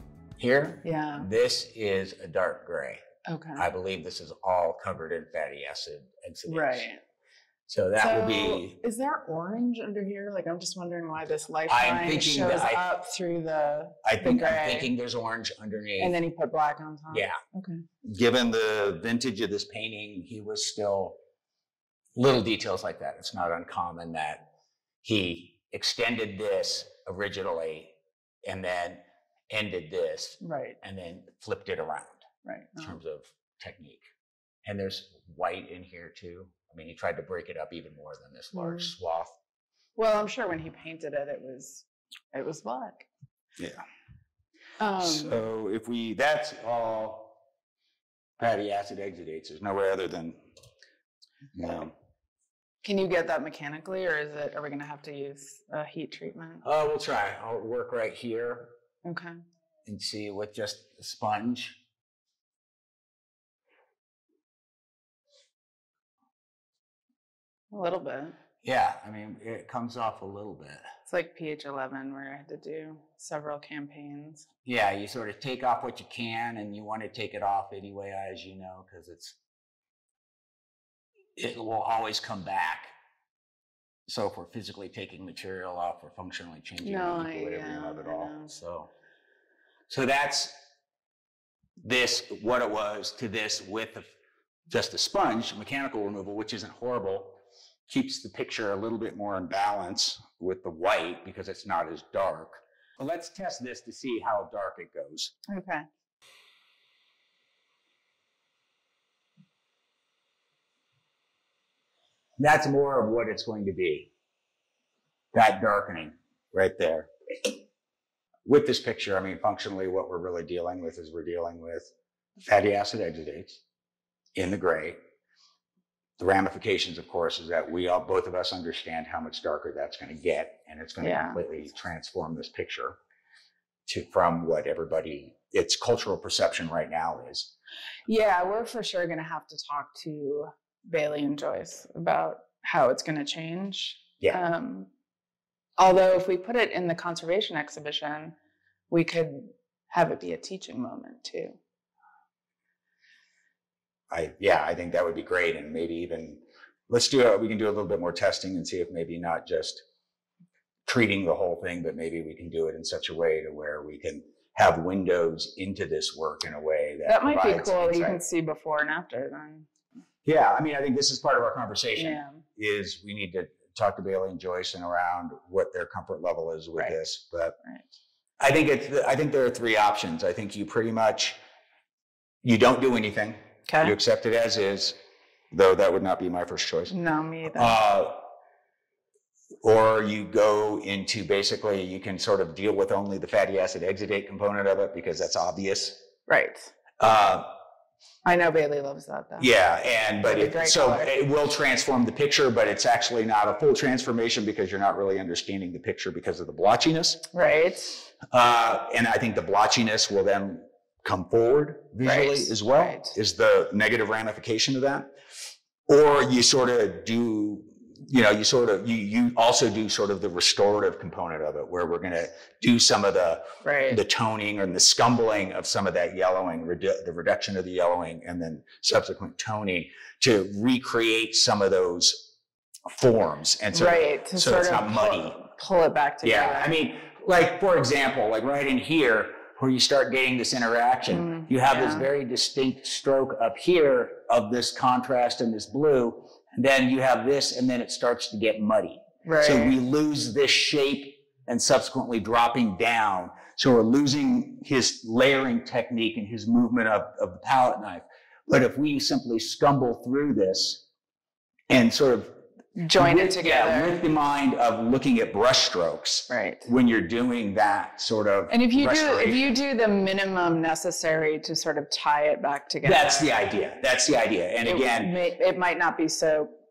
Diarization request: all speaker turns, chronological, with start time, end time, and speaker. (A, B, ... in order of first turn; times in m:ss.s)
0:00.4-0:03.0 A
0:00.8-0:01.3 B
0:03.3-0:03.7 B
0:03.6-0:06.9 A
0:06.5-0:07.0 B
0:07.7-0:08.8 A
0:08.0-0:14.9 B
0:11.7-0:12.9 A
0:14.0-0:16.2 A
0:16.0-0:17.8 B
0:17.1-0:17.4 A
0:18.0-0:21.2 A
0:22.2-0:24.5 A
0:25.0-0:27.9 A
0:28.4-0:34.0 A
0:30.4-0:30.8 B
0:32.5-0:33.0 B
0:34.6-0:39.4 A
0:38.5-0:38.9 B
0:40.0-0:43.1 B
0:44.8-0:45.4 B
0:45.0-0:47.4 A
0:48.4-0:50.4 A
0:51.5-0:51.9 A
0:52.8-0:56.6 B
0:56.6-0:58.7 A
0:59.0-0:59.3 B
0:59.8-1:01.8 A
1:07.7-1:08.4 B
1:08.6-1:10.9 A
1:11.1-1:14.5 B
1:14.6-1:19.4 A
1:21.4-1:22.9 A
1:24.1-1:28.9 A
1:26.8-1:28.5 B
1:29.9-1:30.6 A
1:31.8-1:34.1 A
1:34.7-1:45.4 A
1:45.5-1:45.8 B
1:52.4-1:54.1 A
1:55.3-1:57.1 A
1:58.4-2:01.9 A
2:02.4-2:03.6 A
2:04.4-2:05.0 A
2:06.2-2:13.0 A
2:11.0-2:11.4 B
2:13.9-2:17.5 A
2:18.1-2:24.9 B
2:25.8-2:28.4 B
2:28.9-2:31.6 B
2:34.1-2:39.8 A
2:40.8-2:48.2 A
2:47.1-2:49.7 B
2:50.2-2:57.6 A
2:52.0-2:52.4 B
2:58.4-3:01.4 A
3:02.4-3:05.0 A
3:03.7-3:03.9 B
3:05.5-3:06.9 A
3:06.9-3:07.8 B
3:07.5-3:08.3 A
3:09.6-3:16.0 A
3:16.3-3:16.7 B
3:17.0-3:17.5 A
3:18.2-3:19.5 B
3:19.4-3:27.3 A
3:20.2-3:21.1 B
3:27.3-3:28.0 B
3:28.3-3:35.1 A
3:32.0-3:33.2 B
3:35.9-3:52.3 A
3:43.6-3:44.0 B
3:52.9-3:55.4 A
3:53.7-3:56.7 B
3:56.2-4:20.8 A
4:01.1-4:02.1 B
4:09.2-4:09.8 B
4:21.7-4:22.4 A
4:22.8-4:24.0 B
4:22.9-4:29.5 A
4:26.3-4:26.7 B
4:28.5-4:33.4 B
4:32.8-4:35.1 A
4:34.6-4:36.5 B